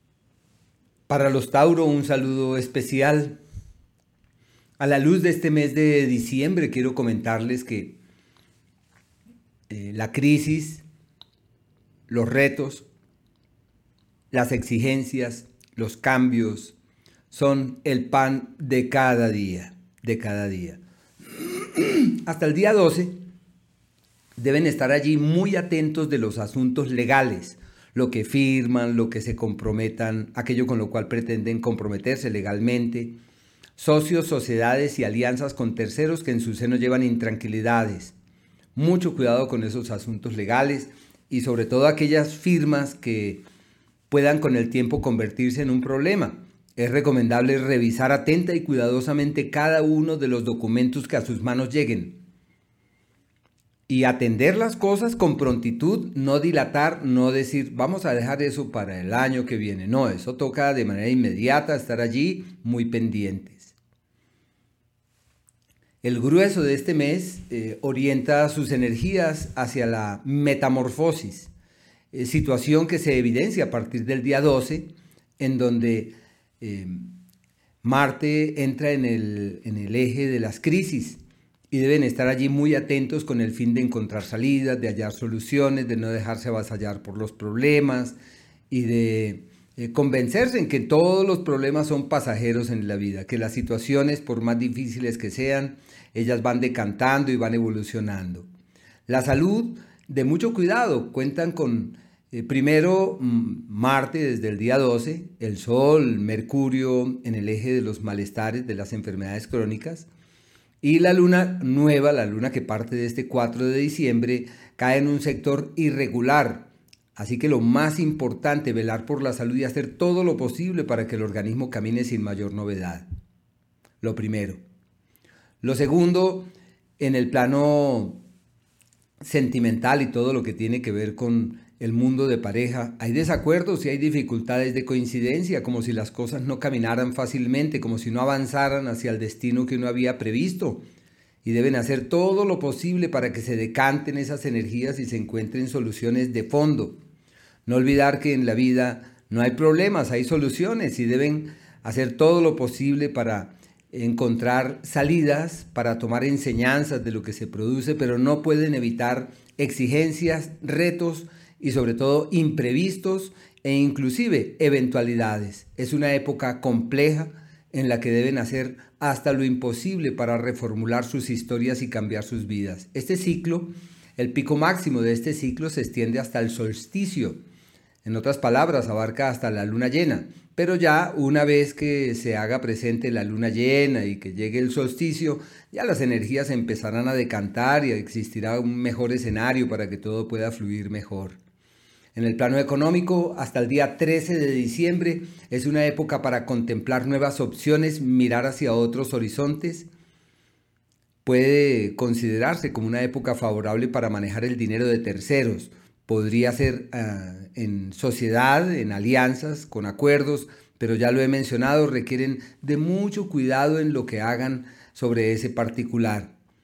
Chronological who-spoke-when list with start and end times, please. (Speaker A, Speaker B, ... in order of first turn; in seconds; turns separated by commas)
Speaker A: 1.1-3.4, Speaker A: 4.8-8.0, Speaker A: 9.7-10.8, Speaker A: 12.1-12.9, Speaker A: 14.3-16.8, Speaker A: 17.3-23.2, Speaker A: 24.4-33.2, Speaker A: 33.8-38.1, Speaker A: 38.8-43.4, Speaker A: 44.1-52.2, Speaker A: 53.9-63.7, Speaker A: 66.0-71.5, Speaker A: 72.1-77.2, Speaker A: 77.8-88.2, Speaker A: 88.7-98.5, Speaker A: 99.1-110.1, Speaker A: 110.8-123.0, Speaker A: 124.0-124.6, Speaker A: 125.6-126.5, Speaker A: 127.0-128.2, Speaker A: 129.2-140.8, Speaker A: 141.4-147.0, Speaker A: 147.7-177.4, Speaker A: 178.0-191.4, Speaker A: 192.1-199.9, Speaker A: 201.2-216.3